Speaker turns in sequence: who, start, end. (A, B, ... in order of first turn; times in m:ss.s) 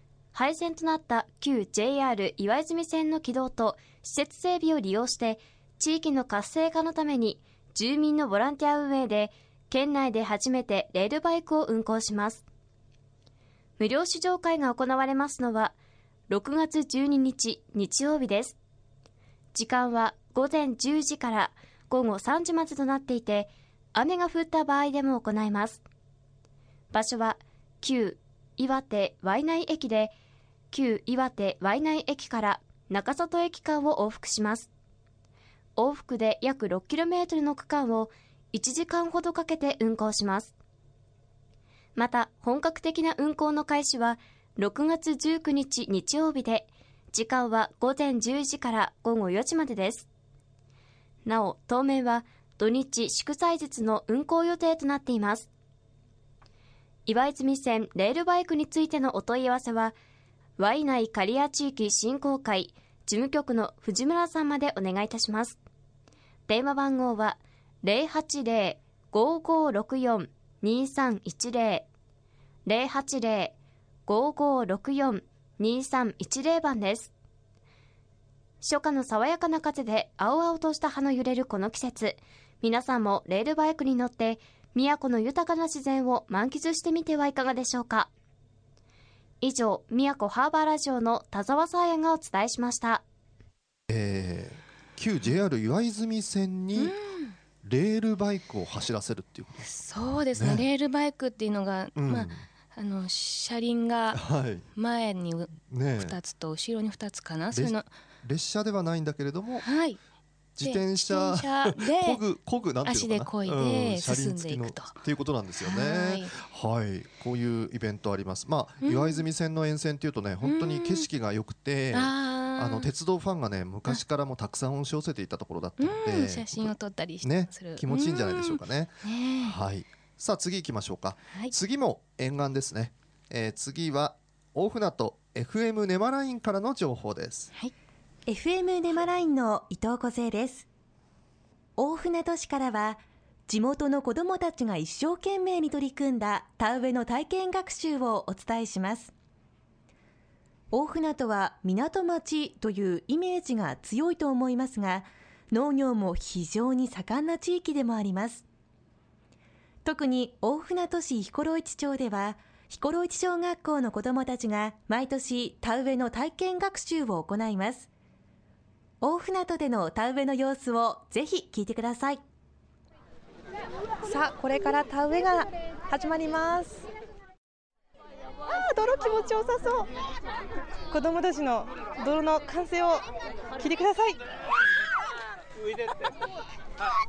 0:00.3-0:12.4 A
0:13.8-0:15.7 A
0:16.3-0:18.6 A
0:19.5-0:25.8 A
0:26.9-0:30.1 A
0:30.7-0:34.7 A
0:35.8-0:40.5 A
0:42.0-0:50.1 A
0:51.2-0:55.5 A
0:57.1-0:59.9 A
1:00.6-1:05.6 A
1:06.5-1:11.8 A
1:12.6-1:13.5 A
1:14.1-1:17.1 A
1:18.6-1:28.1 A
1:29.4-1:33.0 A
1:33.9-1:37.0 B
1:36.8-1:37.4 C
1:37.6-1:39.7 B
1:39.6-1:44.2 C
1:40.3-1:40.6 B
1:42.0-1:42.4 B
1:44.1-1:44.7 B
1:44.8-1:47.9 C
1:45.7-1:46.2 B
1:47.5-1:49.7 B
1:49.6-1:50.0 C
1:50.6-2:17.5 B
1:50.6-1:52.2 C
1:52.8-1:54.9 C
1:55.6-1:56.3 C
1:58.8-1:59.2 C
2:00.4-2:01.1 C
2:01.9-2:02.9 C
2:05.8-2:09.5 C
2:18.3-2:20.6 D
2:21.8-2:29.1 D
2:30.7-2:38.4 D
2:39.8-2:47.9 D
2:49.0-2:52.2 D
2:54.0-2:56.8 E
2:58.5-2:59.9 E
3:00.9-3:03.0 E
3:03.6-3:04.2 E